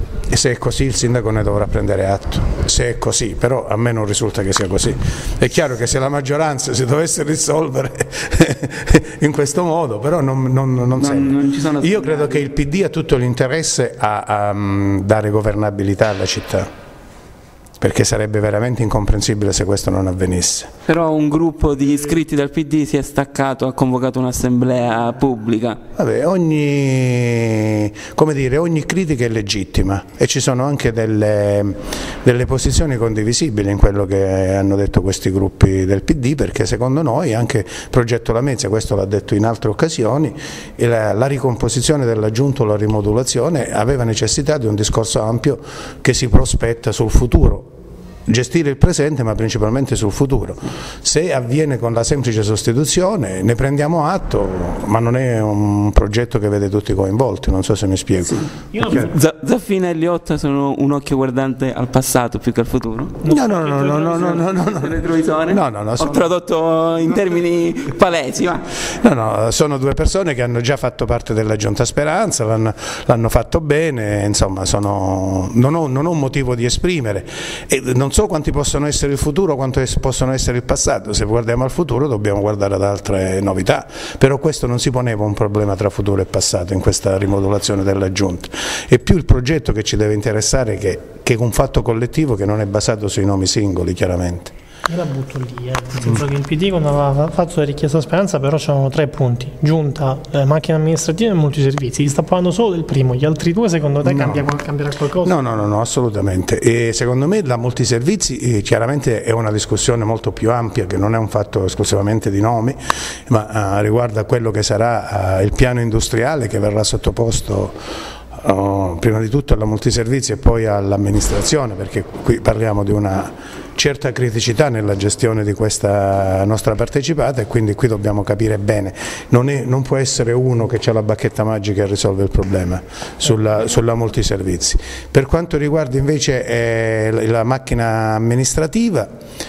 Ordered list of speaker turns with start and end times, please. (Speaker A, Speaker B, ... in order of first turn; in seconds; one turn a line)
Speaker A: 0.3-16.7
Speaker B: 11.0-12.5
Speaker A: 17.8-20.7
Speaker B: 20.9-25.8
Speaker A: 26.0-47.7
Speaker A: 48.3-59.1
Speaker C: 58.7-59.1
Speaker B: 58.9-63.3
Speaker C: 63.2-64.3
Speaker A: 63.3-64.9
Speaker B: 64.1-68.7
Speaker A: 65.5-66.3
Speaker A: 69.0-94.5
Speaker C: 94.9-105.5
Speaker A: 104.0-104.6
Speaker A: 105.2-117.8
Speaker A: 118.4-139.1